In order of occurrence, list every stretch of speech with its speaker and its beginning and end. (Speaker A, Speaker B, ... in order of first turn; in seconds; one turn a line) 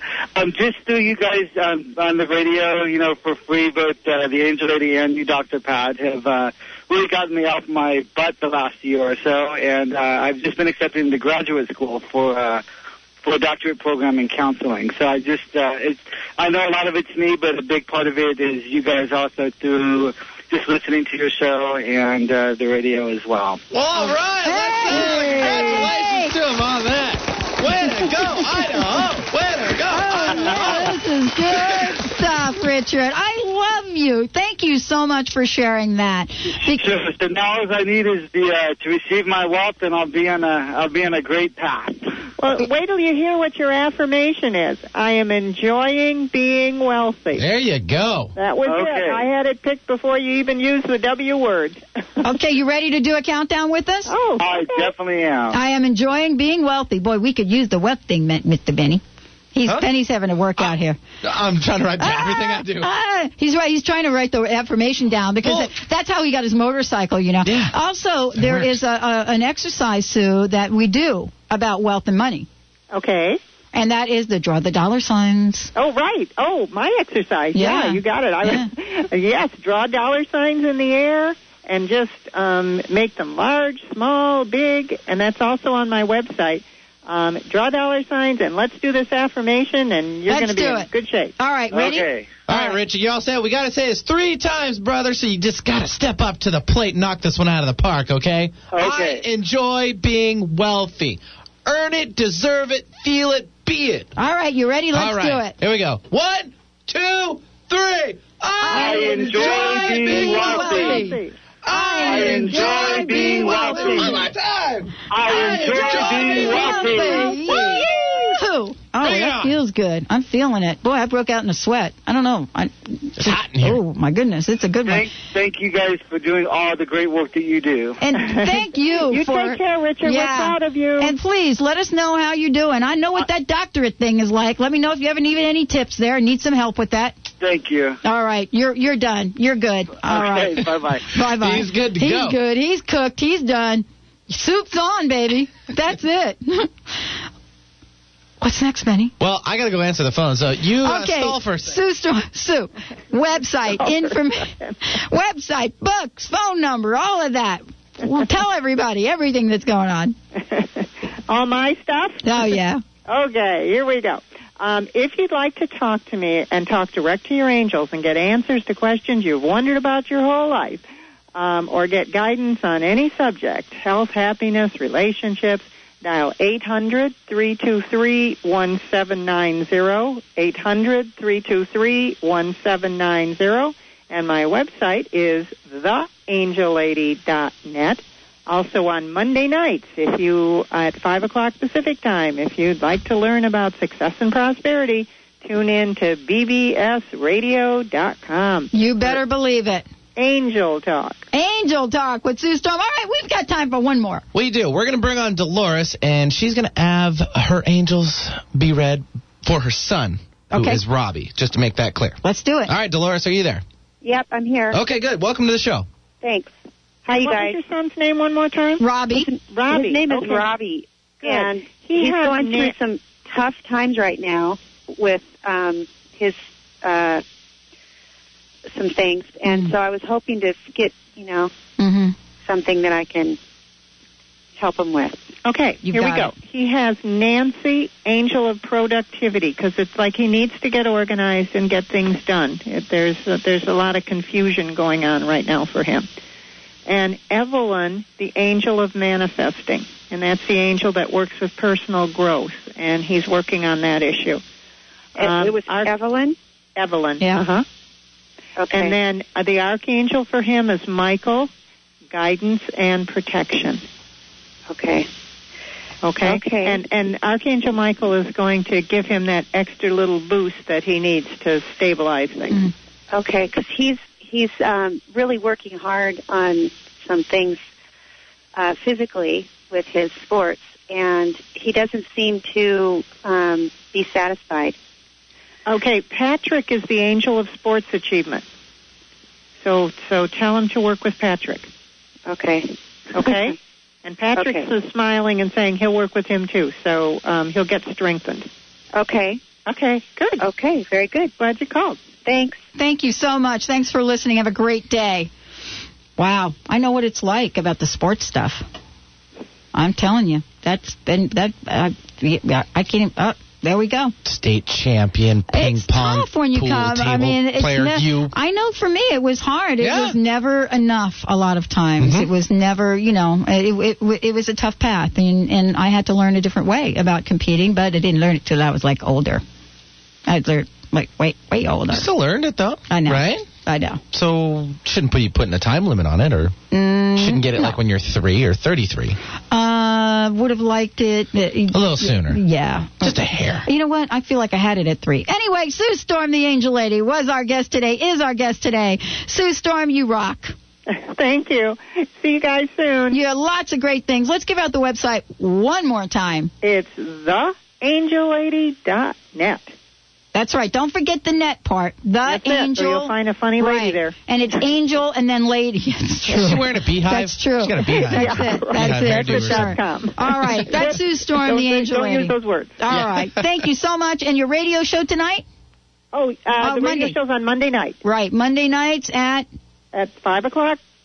Speaker A: 0.3-12.6
Speaker A: 13.2-23.6
Speaker B: 23.7-32.1
Speaker C: 24.4-26.4
Speaker C: 27.8-28.9
Speaker C: 29.9-37.0
Speaker A: 30.3-30.7
Speaker A: 36.7-42.0
Speaker D: 42.4-47.4
Speaker B: 47.4-48.3
Speaker D: 48.4-52.1
Speaker A: 48.6-49.2
Speaker C: 52.2-54.1
Speaker D: 54.1-54.9
Speaker A: 54.4-55.6
Speaker C: 55.5-59.0
Speaker C: 59.5-61.0
Speaker B: 60.6-62.9
Speaker C: 62.0-72.5
Speaker B: 65.4-65.7
Speaker B: 67.4-67.8
Speaker B: 68.4-68.7
Speaker D: 72.9-73.4
Speaker C: 73.7-75.7
Speaker D: 75.8-91.3
Speaker C: 77.5-78.7
Speaker C: 90.3-92.8
Speaker A: 91.7-92.4
Speaker B: 92.5-104.1
Speaker A: 98.7-99.2
Speaker C: 104.2-105.5
Speaker B: 104.9-111.1
Speaker C: 108.6-114.3
Speaker A: 108.7-111.1
Speaker D: 108.7-111.4
Speaker B: 111.6-118.4
Speaker A: 112.0-114.2
Speaker D: 112.3-114.2
Speaker A: 115.1-117.5
Speaker C: 115.6-125.1
Speaker B: 119.0-119.5
Speaker B: 123.2-123.8
Speaker A: 124.8-128.1
Speaker C: 128.0-137.2
Speaker D: 129.1-131.1
Speaker A: 137.4-138.0
Speaker C: 138.0-147.2
Speaker A: 140.0-141.1
Speaker B: 141.4-142.4
Speaker C: 148.4-149.1
Speaker B: 149.2-151.8
Speaker C: 150.8-160.2
Speaker D: 153.8-154.1
Speaker D: 160.4-162.5
Speaker C: 162.2-162.8
Speaker D: 163.1-170.8
Speaker D: 171.3-199.2
Speaker C: 198.7-199.9
Speaker D: 200.2-201.2
Speaker C: 201.3-204.2
Speaker B: 204.3-213.6
Speaker C: 210.5-210.8
Speaker C: 212.2-212.7
Speaker E: 214.0-214.8
Speaker B: 214.7-215.9
Speaker E: 216.2-216.5
Speaker E: 217.1-217.6
Speaker D: 217.1-218.8
Speaker C: 218.8-219.3
Speaker E: 219.1-227.2
Speaker D: 219.4-220.5
Speaker D: 221.2-222.8
Speaker E: 228.7-231.5
Speaker C: 229.5-229.7
Speaker C: 231.8-232.2
Speaker E: 232.4-233.4
Speaker E: 234.6-235.2
Speaker D: 235.4-246.1
Speaker C: 235.9-236.3
Speaker D: 246.9-254.4
Speaker E: 255.2-256.4
Speaker D: 255.2-255.9
Speaker D: 256.8-257.6
Speaker C: 257.2-257.4
Speaker E: 258.6-258.9
Speaker D: 258.7-261.5
Speaker D: 262.1-263.8
Speaker E: 264.7-265.1
Speaker D: 266.0-272.6
Speaker E: 266.2-266.8
Speaker E: 273.1-277.6
Speaker E: 278.6-284.8
Speaker D: 285.6-288.4
Speaker D: 289.6-291.7
Speaker E: 292.2-293.6
Speaker D: 293.1-298.5
Speaker E: 294.3-294.7
Speaker E: 298.9-299.4
Speaker D: 299.6-300.4
Speaker E: 300.4-301.3
Speaker D: 301.4-302.0
Speaker E: 302.2-302.6
Speaker C: 302.8-305.3
Speaker C: 306.2-308.6
Speaker C: 309.7-314.1
Speaker B: 314.2-318.3
Speaker C: 315.5-329.4
Speaker B: 319.8-320.2
Speaker B: 322.0-322.3
Speaker C: 330.2-332.1
Speaker B: 331.9-333.5
Speaker C: 332.9-334.0
Speaker B: 334.1-336.6
Speaker C: 336.7-337.8
Speaker B: 337.1-339.2
Speaker C: 339.5-350.5
Speaker B: 341.7-342.4
Speaker B: 343.0-343.7
Speaker D: 350.9-353.2
Speaker C: 353.1-356.5
Speaker D: 356.6-359.7
Speaker C: 360.3-375.4
Speaker D: 362.2-364.1
Speaker B: 366.3-369.8
Speaker D: 368.1-372.8
Speaker B: 372.9-373.2
Speaker D: 376.1-378.0
Speaker C: 376.6-377.2
Speaker C: 378.0-379.5
Speaker D: 379.9-380.8